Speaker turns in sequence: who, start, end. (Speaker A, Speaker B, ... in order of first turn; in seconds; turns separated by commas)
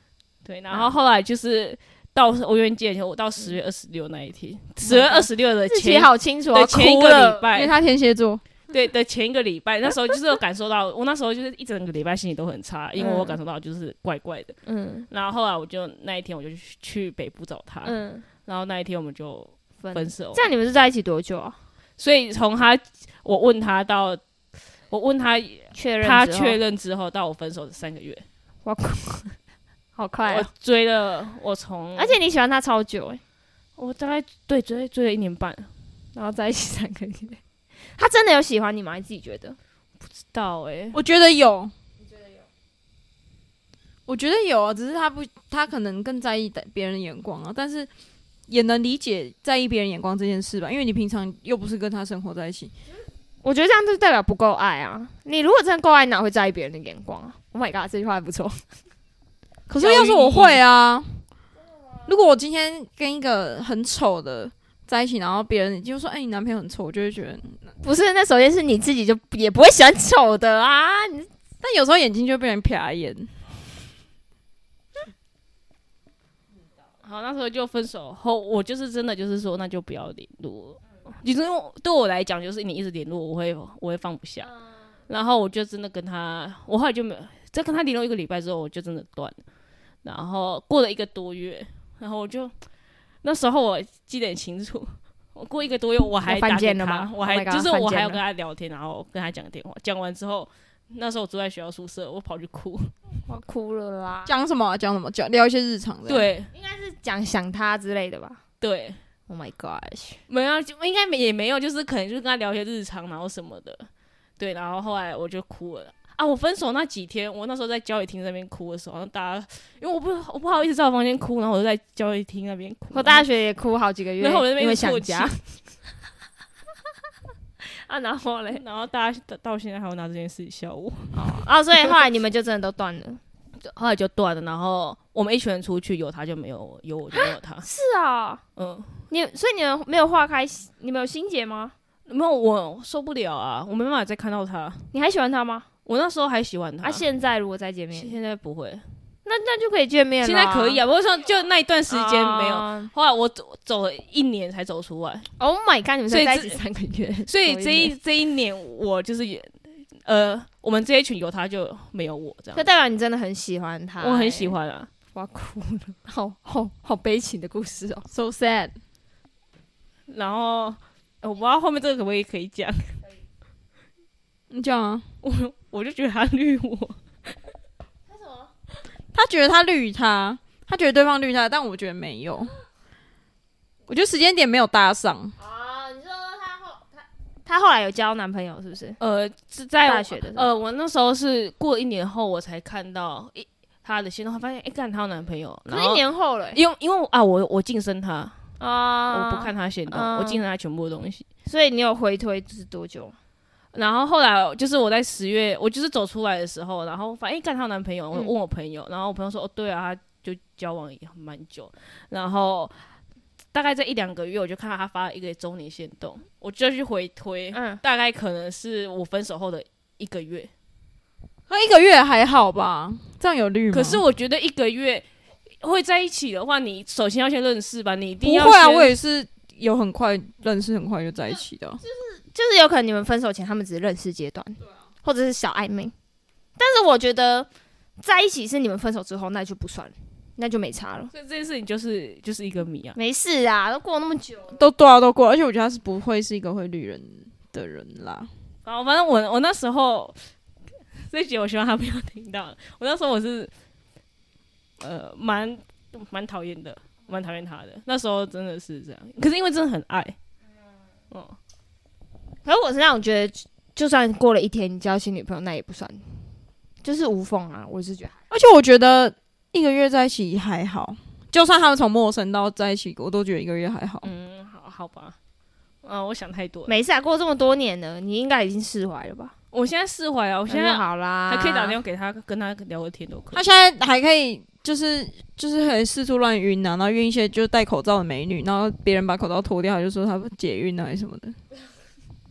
Speaker A: 0.5-7.7, Speaker B: 4.8-7.5, Speaker C: 7.5-8.4, Speaker A: 8.7-14.6, Speaker B: 13.0-13.4, Speaker B: 14.7-15.1, Speaker A: 15.1-20.5, Speaker B: 17.9-18.2, Speaker B: 19.8-21.6, Speaker A: 22.0-24.2, Speaker A: 24.9-28.2, Speaker B: 25.7-26.6, Speaker B: 28.6-29.4, Speaker B: 30.0-30.5, Speaker A: 30.3-32.2, Speaker B: 32.0-33.2, Speaker A: 33.8-35.7, Speaker B: 36.1-37.4, Speaker B: 38.0-39.6, Speaker A: 40.3-41.0, Speaker C: 40.9-41.7, Speaker B: 42.0-42.5, Speaker C: 44.1-47.9, Speaker C: 48.5-52.7, Speaker B: 53.4-58.6, Speaker C: 59.7-61.2, Speaker A: 59.8-60.6, Speaker C: 62.1-67.6, Speaker B: 67.8-71.3, Speaker C: 71.6-73.4, Speaker A: 77.0-84.5, Speaker A: 85.1-89.4, Speaker A: 90.0-92.5, Speaker A: 93.2-102.9, Speaker B: 96.2-98.2, Speaker B: 103.3-104.3, Speaker C: 104.3-106.3, Speaker A: 106.1-106.5, Speaker B: 106.5-108.4, Speaker A: 108.6-109.0, Speaker B: 109.3-110.2, Speaker A: 110.3-123.3, Speaker B: 122.9-125.4, Speaker A: 124.2-125.4, Speaker B: 127.7-128.6, Speaker A: 128.5-131.9, Speaker B: 131.1-133.2, Speaker A: 133.6-137.7, Speaker B: 137.1-138.4, Speaker A: 138.6-139.0, Speaker B: 139.1-141.7, Speaker A: 142.1-144.9, Speaker B: 144.9-145.7, Speaker A: 145.9-147.1, Speaker B: 146.8-148.1, Speaker A: 147.9-148.8, Speaker B: 149.3-150.8, Speaker A: 150.2-155.3, Speaker B: 151.9-152.9, Speaker B: 155.4-157.9, Speaker A: 156.1-156.6, Speaker A: 157.3-162.7, Speaker B: 162.6-164.6, Speaker A: 164.0-164.9, Speaker B: 165.1-168.1, Speaker C: 168.1-168.8, Speaker A: 170.1-173.0, Speaker C: 174.5-175.1, Speaker A: 175.2-177.4, Speaker B: 178.1-178.5, Speaker C: 179.1-182.5, Speaker C: 183.9-185.3, Speaker B: 185.4-189.0, Speaker A: 189.0-198.4, Speaker B: 189.8-190.5, Speaker B: 195.7-196.6, Speaker B: 198.6-200.4, Speaker A: 199.1-201.3, Speaker B: 201.5-203.2, Speaker A: 203.7-212.8, Speaker A: 213.5-220.5, Speaker B: 217.5-217.8, Speaker C: 221.5-224.0, Speaker A: 223.7-225.1, Speaker A: 225.6-228.9, Speaker C: 228.2-231.8, Speaker B: 231.8-235.9, Speaker B: 236.6-237.5, Speaker B: 238.0-241.1, Speaker A: 241.1-243.0, Speaker B: 243.0-244.6, Speaker C: 244.5-248.3, Speaker A: 248.7-250.2, Speaker A: 251.0-253.5, Speaker A: 254.8-260.2, Speaker A: 261.1-261.4, Speaker B: 262.4-266.3, Speaker B: 266.8-268.2, Speaker C: 268.3-274.1, Speaker A: 274.0-275.2, Speaker A: 275.8-276.7, Speaker B: 276.7-279.3, Speaker A: 279.5-283.4, Speaker B: 280.5-281.8, Speaker C: 283.3-291.4